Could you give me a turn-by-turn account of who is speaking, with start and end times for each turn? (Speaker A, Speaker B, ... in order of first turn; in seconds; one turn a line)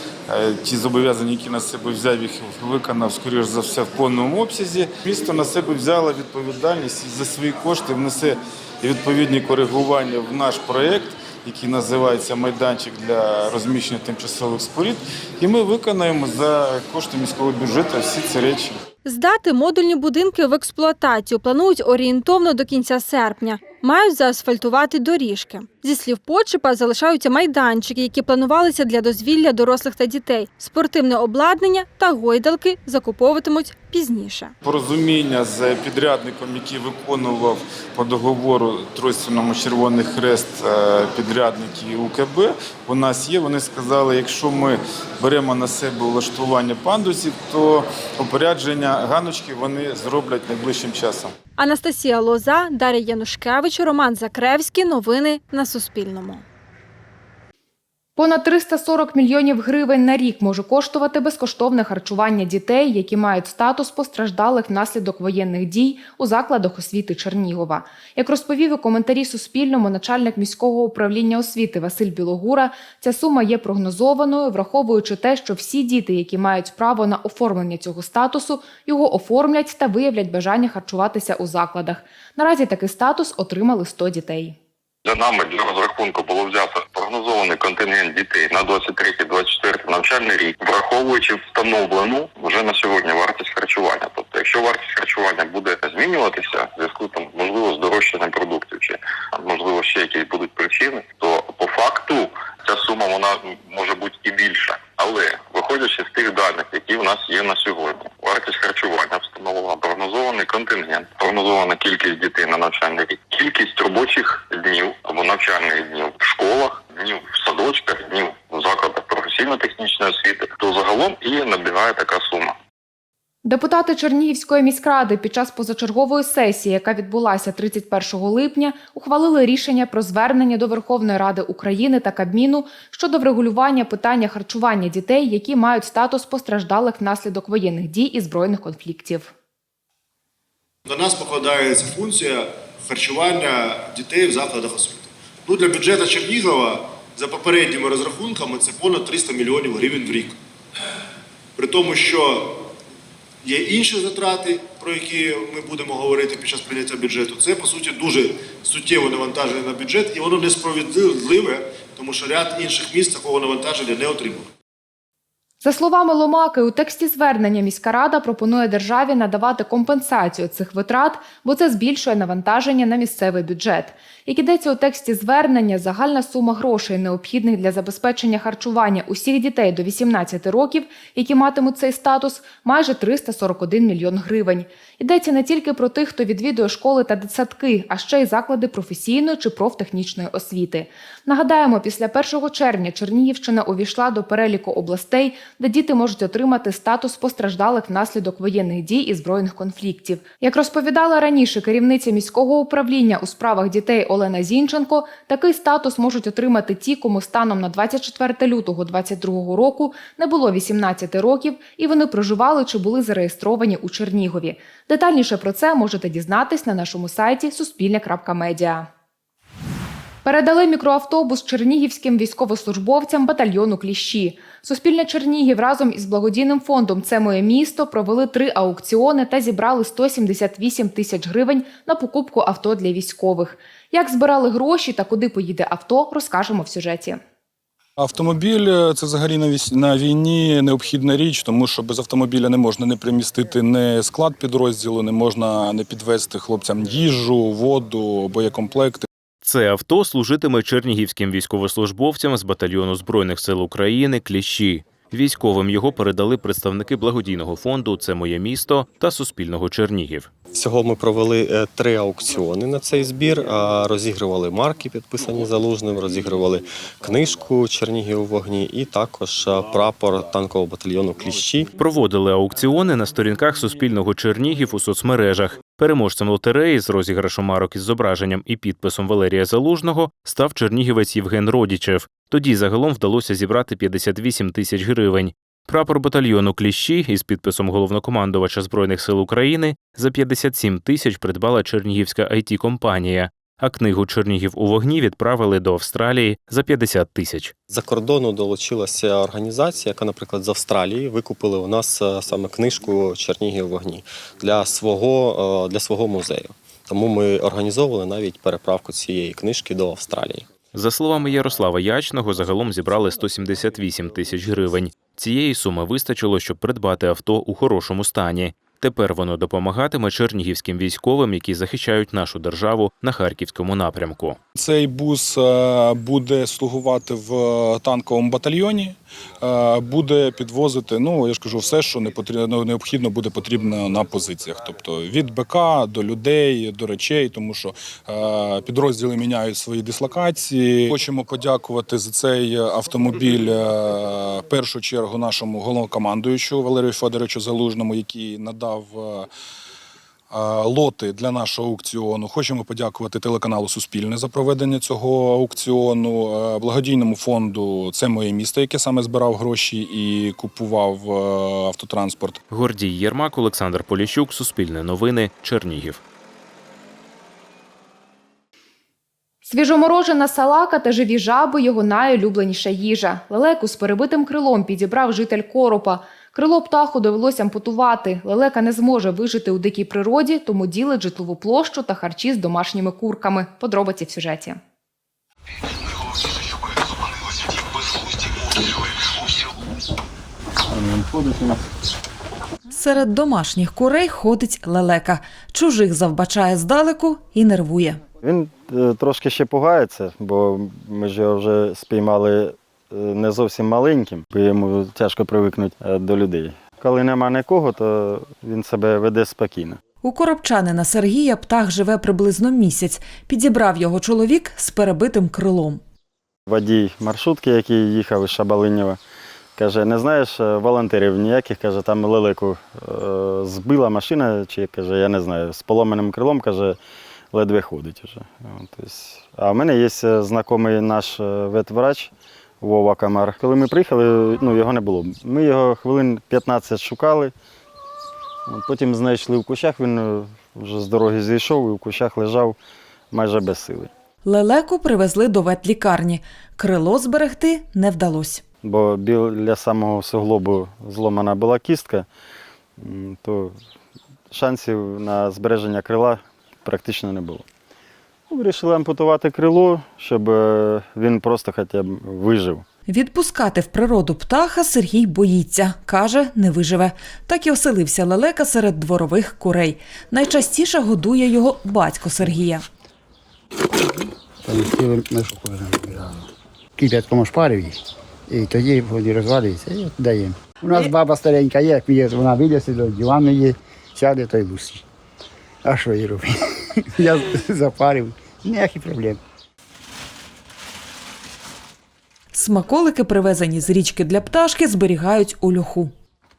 Speaker A: 0.3-18.8
Speaker B: 19.1-34.5
Speaker A: 34.6-51.4
Speaker B: 51.6-56.4
Speaker C: 58.2-84.6
Speaker D: 85.0-122.6
Speaker C: 123.5-139.3
Speaker E: 140.9-150.4
Speaker E: 151.6-152.6
Speaker E: 153.4-164.5
Speaker C: 165.6-218.9
Speaker C: 220.2-237.2
Speaker F: 238.0-249.1
Speaker G: 249.4-260.3
Speaker H: 260.5-271.7
Speaker G: 271.8-297.5
Speaker H: 297.7-310.5
Speaker G: 310.7-324.4
Speaker F: 324.6-349.3
Speaker F: 350.3-362.4
Speaker G: 362.5-366.0
Speaker C: 369.4-384.6
Speaker I: 392.7-398.0
Speaker J: 398.2-409.8
Speaker I: 410.0-415.8
Speaker J: 416.5-419.0
Speaker J: 419.6-426.8
Speaker J: 427.3-437.3
Speaker J: 438.5-442.6
Speaker J: 443.1-443.9
Speaker I: 444.2-448.4
Speaker J: 448.6-452.1
Speaker J: 452.8-453.6
Speaker J: 454.3-457.4
Speaker J: 458.3-462.6
Speaker I: 462.9-472.6
Speaker K: 474.4-476.2
Speaker K: 476.8-477.8
Speaker K: 478.3-484.8
Speaker K: 485.6-486.3
Speaker K: 487.0-489.2
Speaker I: 492.3-495.9